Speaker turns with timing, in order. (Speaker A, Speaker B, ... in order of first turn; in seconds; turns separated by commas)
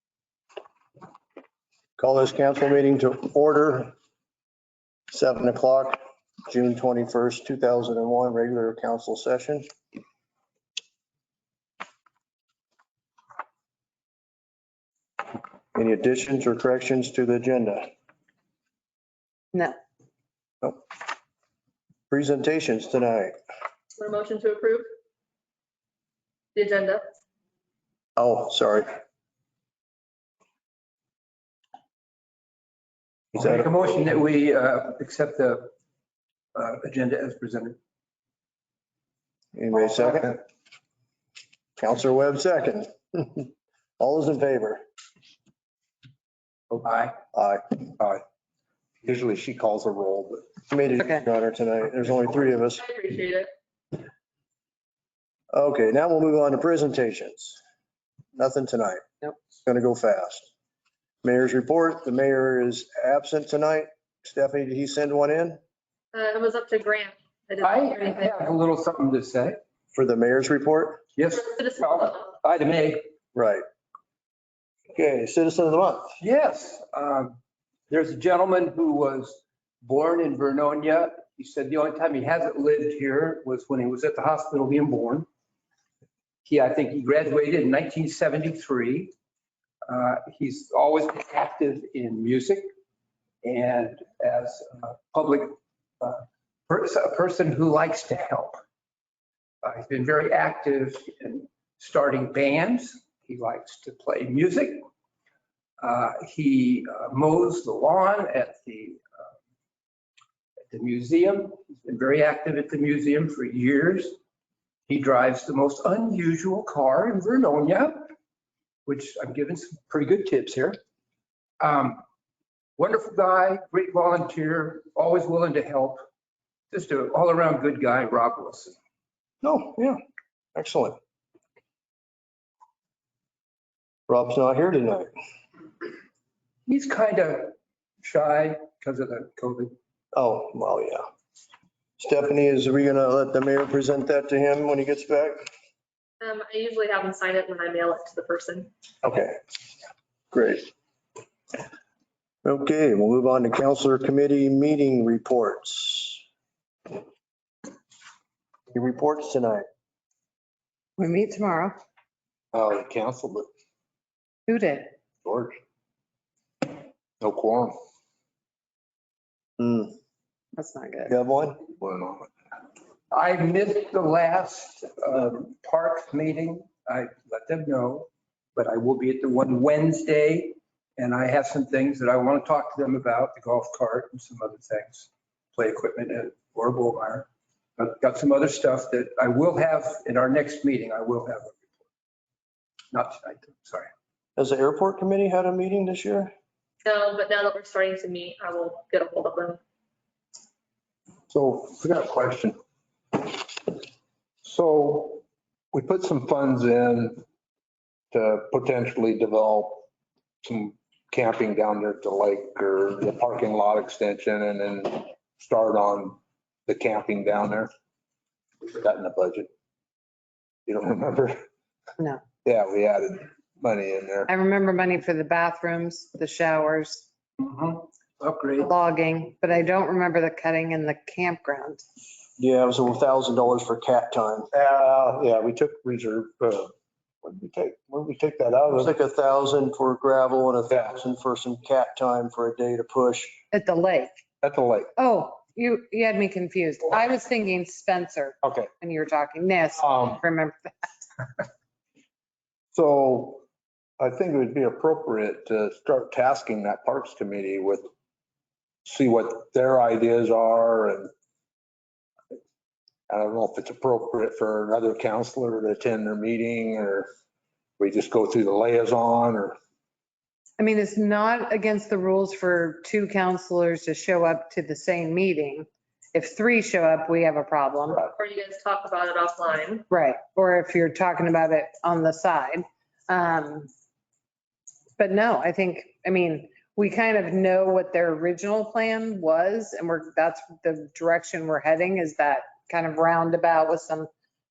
Speaker A: 2.0-3.9, Speaker A: 5.1-9.7, Speaker A: 15.7-17.9, Speaker A: 22.1-23.3, Speaker B: 24.0-24.9, Speaker B: 26.6-27.0, Speaker A: 28.2-28.9, Speaker A: 33.3-33.7, Speaker C: 33.3-35.7, Speaker C: 36.5-37.8, Speaker A: 39.5-40.4, Speaker A: 41.8-44.8, Speaker C: 46.8-47.2, Speaker A: 47.3-47.8, Speaker D: 49.0-50.5, Speaker A: 50.7-52.8, Speaker B: 52.8-53.5, Speaker A: 55.5-57.6, Speaker A: 58.4-59.0, Speaker A: 59.6-60.5, Speaker A: 61.2-65.6, Speaker B: 66.1-68.3, Speaker C: 67.6-69.6, Speaker A: 69.9-71.0, Speaker C: 71.2-73.0, Speaker B: 71.5-71.8, Speaker A: 73.3-73.6, Speaker A: 74.9-76.1, Speaker C: 76.2-77.4, Speaker C: 77.9-85.3, Speaker C: 86.5-89.1, Speaker C: 89.9-92.7, Speaker C: 93.4-98.6, Speaker C: 99.6-104.9, Speaker C: 105.8-109.0, Speaker C: 110.7-114.2, Speaker C: 114.9-118.1, Speaker C: 118.9-120.8, Speaker C: 121.6-122.0, Speaker C: 122.8-126.0, Speaker C: 126.7-128.8, Speaker A: 129.4-130.0, Speaker A: 130.6-131.0, Speaker A: 134.1-135.1, Speaker C: 136.7-139.7, Speaker A: 140.1-141.0, Speaker A: 142.0-145.4, Speaker B: 146.2-148.7, Speaker A: 149.0-149.4, Speaker A: 150.3-150.7, Speaker A: 152.4-156.2, Speaker A: 158.7-159.6, Speaker E: 161.0-161.8, Speaker D: 162.5-163.5, Speaker E: 164.5-164.9, Speaker D: 165.2-165.6, Speaker D: 167.2-167.8, Speaker A: 169.6-170.0, Speaker E: 170.6-171.1, Speaker A: 171.1-171.6, Speaker D: 171.8-172.3, Speaker C: 173.1-191.7, Speaker C: 192.9-193.9, Speaker A: 194.4-196.3, Speaker B: 196.8-199.6, Speaker D: 201.3-202.6, Speaker D: 203.1-203.8, Speaker D: 204.4-207.2, Speaker D: 208.1-209.9, Speaker D: 210.4-217.7, Speaker D: 218.6-219.5, Speaker D: 220.7-221.4, Speaker D: 222.4-224.3, Speaker E: 224.3-227.1, Speaker C: 227.4-228.7, Speaker E: 228.6-231.8, Speaker A: 232.4-234.5, Speaker D: 234.5-236.7, Speaker D: 237.2-238.9, Speaker A: 238.7-243.4, Speaker E: 243.5-244.1, Speaker D: 244.4-244.9, Speaker E: 245.0-251.1, Speaker D: 248.4-248.7, Speaker D: 249.8-250.2, Speaker D: 252.7-253.4, Speaker D: 254.0-257.9, Speaker D: 258.8-261.1, Speaker D: 263.1-267.1, Speaker D: 267.8-269.6, Speaker E: 270.6-278.1, Speaker B: 278.2-279.9, Speaker E: 279.9-283.7, Speaker E: 285.0-294.1